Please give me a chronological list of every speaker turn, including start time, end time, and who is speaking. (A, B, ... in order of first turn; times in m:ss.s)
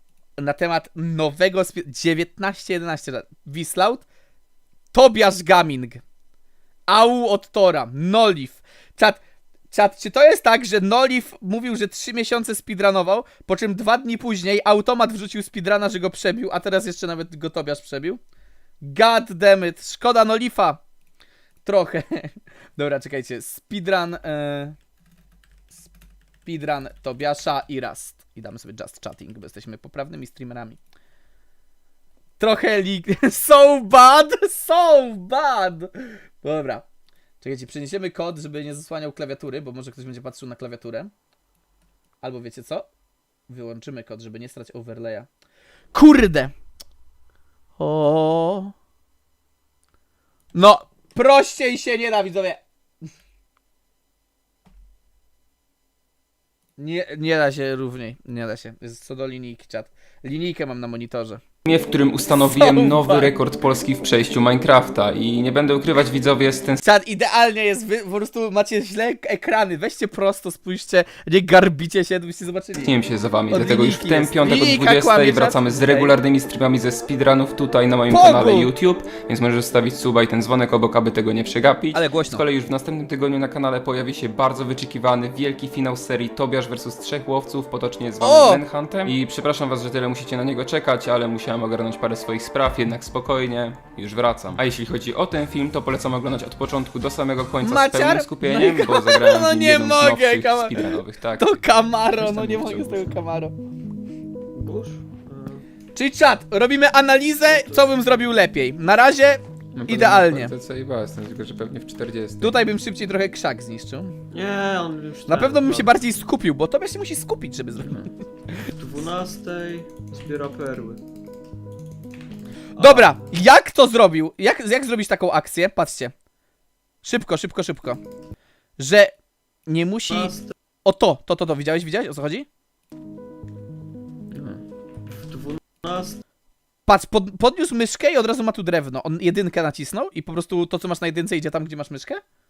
0:00.4-0:04.0 A
0:04.9-0:06.0 A
0:06.9-0:09.2 A
0:09.7-0:18.2 A
0:18.8-0:20.8 A
0:21.6-0:24.8 A
0:26.4-0:30.8 A
0:32.4-0:36.8 A
0:37.4-0:41.1 A
0:42.2-0:42.8 A
0:43.5-0:45.3 A
0:45.9-0:46.5 A
0:47.8-0:48.7 A
0:50.5-0:52.6 A
0:56.8-1:01.4 A
1:01.6-1:06.8 B
1:02.3-1:03.3 A
1:06.8-1:12.9 A
1:12.8-1:43.1 B
1:13.5-1:16.1 A
1:18.1-1:18.7 A
1:21.9-1:22.4 A
1:28.2-1:28.6 A
1:37.6-1:40.8 A
1:41.4-1:43.5 A
1:44.5-1:45.6 C
1:45.9-1:50.5 A
1:47.5-1:47.8 C
1:49.7-1:52.6 B
1:52.4-1:54.1 A
1:54.3-1:55.9 C
1:55.3-1:58.0 A
1:57.8-1:58.1 B
1:58.6-2:01.0 C
2:02.8-2:03.1 C
2:02.8-2:06.1 A
2:07.0-2:08.0 A
2:08.8-2:09.1 A
2:09.7-2:10.3 A
2:10.1-2:10.5 C
2:10.8-2:12.4 A
2:14.3-2:14.6 B
2:15.0-2:16.2 C
2:16.9-2:22.2 A